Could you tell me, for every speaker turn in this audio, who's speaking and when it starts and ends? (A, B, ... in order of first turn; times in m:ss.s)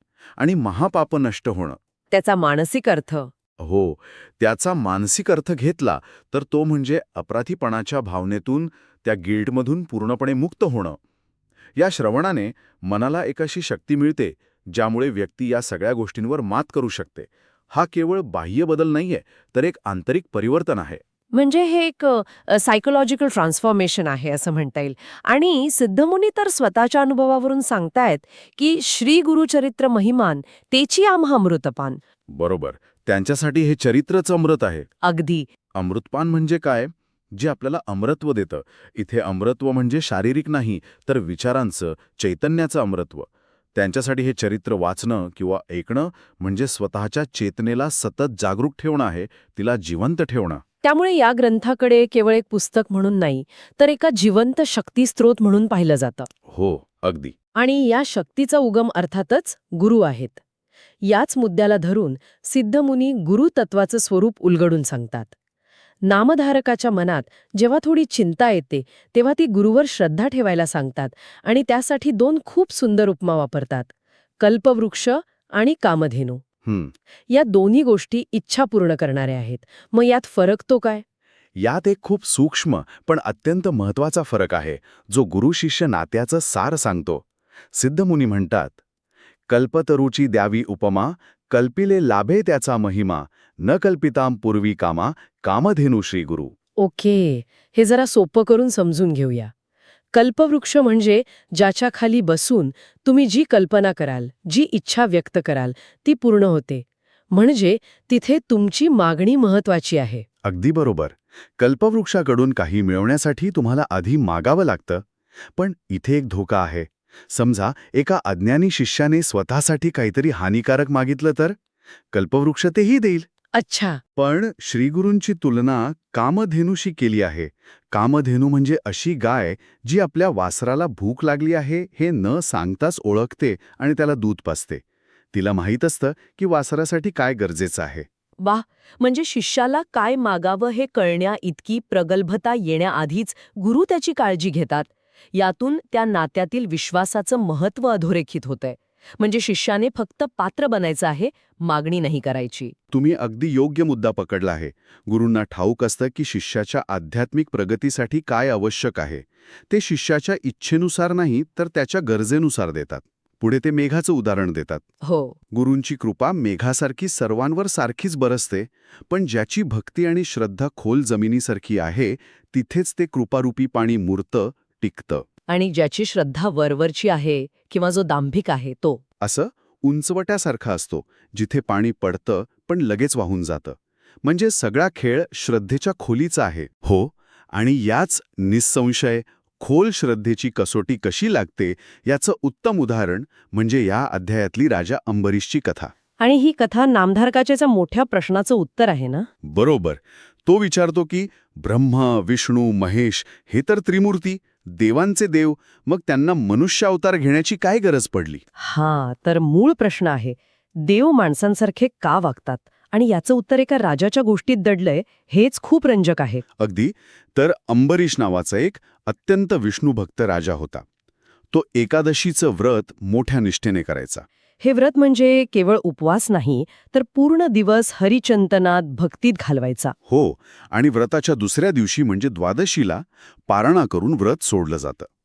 0:00.4-0:01.8 A
0:02.1-0:03.3 B
0:03.6-0:11.0 A
0:11.8-0:21.0 A
0:21.3-0:32.0 B
0:32.3-0:34.9 A
0:35.0-0:35.5 B
0:35.7-0:50.6 A
0:50.8-0:56.3 B
0:56.5-0:57.3 A
0:57.6-1:00.4 B
1:01.0-1:05.3 B
1:06.0-1:16.4 B
1:16.6-1:16.9 A
1:17.3-1:21.0 B
1:21.6-1:28.8 A
1:29.5-1:36.5 A
1:36.8-1:39.5 B
1:40.1-1:50.2 B
1:50.4-1:55.0 A
1:55.6-2:01.6 A
2:02.1-2:03.3 A
2:03.5-2:04.0 B
2:04.2-2:18.0 A
2:18.4-2:32.7 B
2:32.9-2:44.8 A
2:45.0-2:45.4 B
2:45.5-2:55.2 A
2:55.5-2:59.0 B
2:59.2-3:15.9 A
3:16.2-3:19.3 B
3:19.4-3:28.4 A
3:28.6-3:36.4 B
3:36.6-3:40.8 A
3:41.5-3:44.2 A
3:44.6-3:49.9 B
3:50.1-3:55.1 A